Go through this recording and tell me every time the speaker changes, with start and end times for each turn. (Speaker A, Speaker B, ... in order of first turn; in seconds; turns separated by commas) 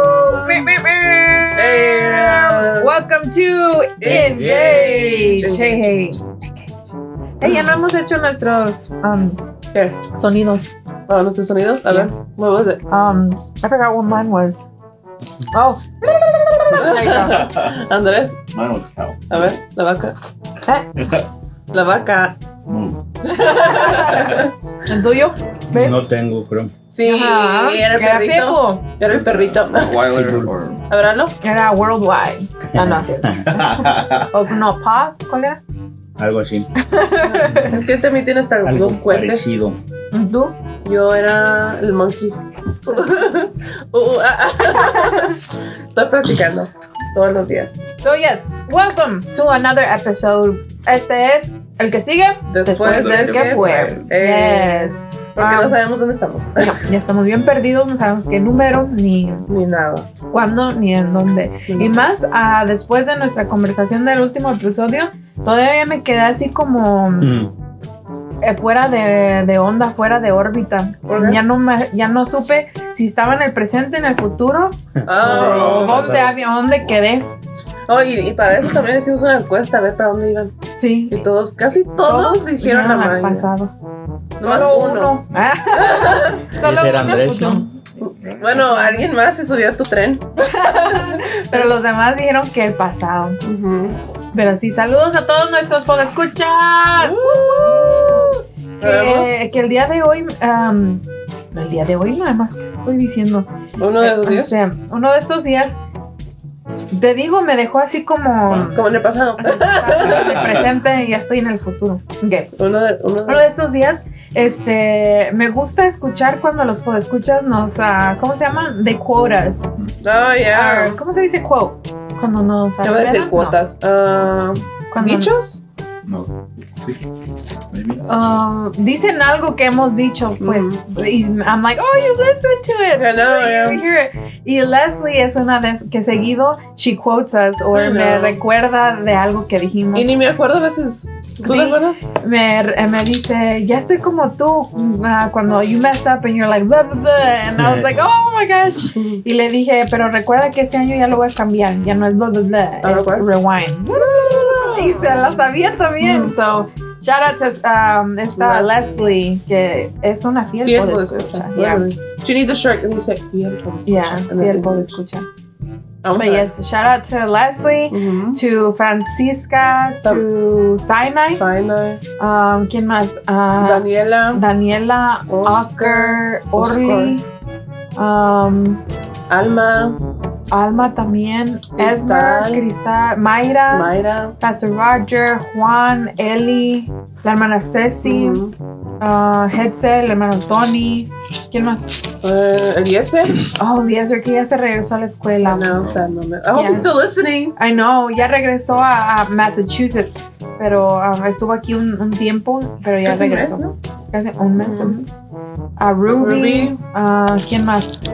Speaker A: 0.2-6.4, Speaker B: 0.2-0.6, Speaker B: 1.5-2.9, Speaker B: 4.0-5.8, Speaker C: 4.0-5.2, Speaker A: 7.4-9.4, Speaker B: 7.4-7.7, Speaker B: 9.7-10.0, Speaker A: 10.1-10.7, Speaker B: 11.1-12.8, Speaker A: 11.8-12.1, Speaker A: 12.9-14.7, Speaker A: 15.5-17.5, Speaker B: 16.8-18.4, Speaker D: 17.4-17.7, Speaker D: 18.5-19.5, Speaker B: 19.3-20.1, Speaker D: 21.0-21.2, Speaker B: 21.7-22.4, Speaker D: 22.7-23.0, Speaker B: 23.2-24.5, Speaker A: 23.4-26.0, Speaker D: 23.9-24.3, Speaker C: 25.7-26.7, Speaker B: 26.9-30.1, Speaker A: 27.0-28.8, Speaker D: 29.1-30.8, Speaker C: 30.1-30.5, Speaker B: 30.9-31.4, Speaker A: 31.4-35.6, Speaker C: 32.8-33.0, Speaker D: 33.4-34.3, Speaker C: 36.2-36.7, Speaker A: 36.9-37.7, Speaker B: 37.2-39.6, Speaker C: 37.5-37.8, Speaker C: 38.6-39.8, Speaker A: 40.1-40.5, Speaker B: 40.8-45.4, Speaker B: 45.9-47.7, Speaker A: 48.0-55.8, Speaker B: 52.5-56.8, Speaker D: 52.8-53.9, Speaker A: 56.6-59.4, Speaker B: 59.5-60.1, Speaker A: 60.3-67.3, Speaker B: 61.7-61.9, Speaker C: 67.2-67.5, Speaker A: 68.4-77.3, Speaker B: 71.1-71.4, Speaker C: 75.0-76.3, Speaker B: 75.0-76.0, Speaker D: 75.3-75.9, Speaker B: 77.9-80.5, Speaker A: 80.8-81.2, Speaker B: 81.1-83.5, Speaker A: 82.0-83.7, Speaker A: 84.4-87.7, Speaker B: 84.4-85.2, Speaker B: 85.7-86.5, Speaker C: 86.6-87.7, Speaker B: 88.0-91.7, Speaker D: 88.2-88.7, Speaker A: 88.5-89.1, Speaker A: 90.4-93.4, Speaker B: 93.4-94.0, Speaker A: 94.3-105.8, Speaker B: 97.0-99.3, Speaker B: 103.8-104.5, Speaker A: 106.9-108.8, Speaker B: 108.7-110.6, Speaker A: 109.4-112.5, Speaker D: 110.0-110.7, Speaker B: 112.5-113.4, Speaker A: 113.2-119.7, Speaker B: 120.0-121.0, Speaker A: 120.5-123.6, Speaker B: 122.8-125.6, Speaker A: 124.9-125.3, Speaker D: 126.0-127.0, Speaker D: 127.7-128.1, Speaker A: 128.1-140.1, Speaker B: 130.4-130.8, Speaker B: 133.0-133.8, Speaker B: 137.7-138.4, Speaker B: 139.9-142.0, Speaker A: 141.4-161.9, Speaker C: 147.6-147.9, Speaker B: 148.9-149.2, Speaker B: 152.8-153.3, Speaker B: 153.9-155.5, Speaker B: 156.0-156.3, Speaker B: 158.3-159.1, Speaker B: 160.6-164.9, Speaker A: 163.8-165.2, Speaker B: 166.0-166.5, Speaker A: 166.2-171.4, Speaker B: 167.9-168.4, Speaker B: 171.3-172.0, Speaker A: 172.2-177.2, Speaker B: 173.6-174.4, Speaker B: 175.3-177.2, Speaker A: 178.0-178.8, Speaker B: 179.3-180.0, Speaker A: 180.5-188.4, Speaker B: 181.8-182.6, Speaker B: 183.7-184.3, Speaker B: 188.0-188.5, Speaker A: 189.0-191.8, Speaker B: 192.2-193.4, Speaker A: 193.5-195.9, Speaker B: 195.4-197.6, Speaker D: 195.8-196.0, Speaker A: 196.5-196.9, Speaker A: 197.6-205.1, Speaker B: 203.0-203.7, Speaker B: 204.5-205.0, Speaker A: 205.8-208.0, Speaker B: 206.1-206.8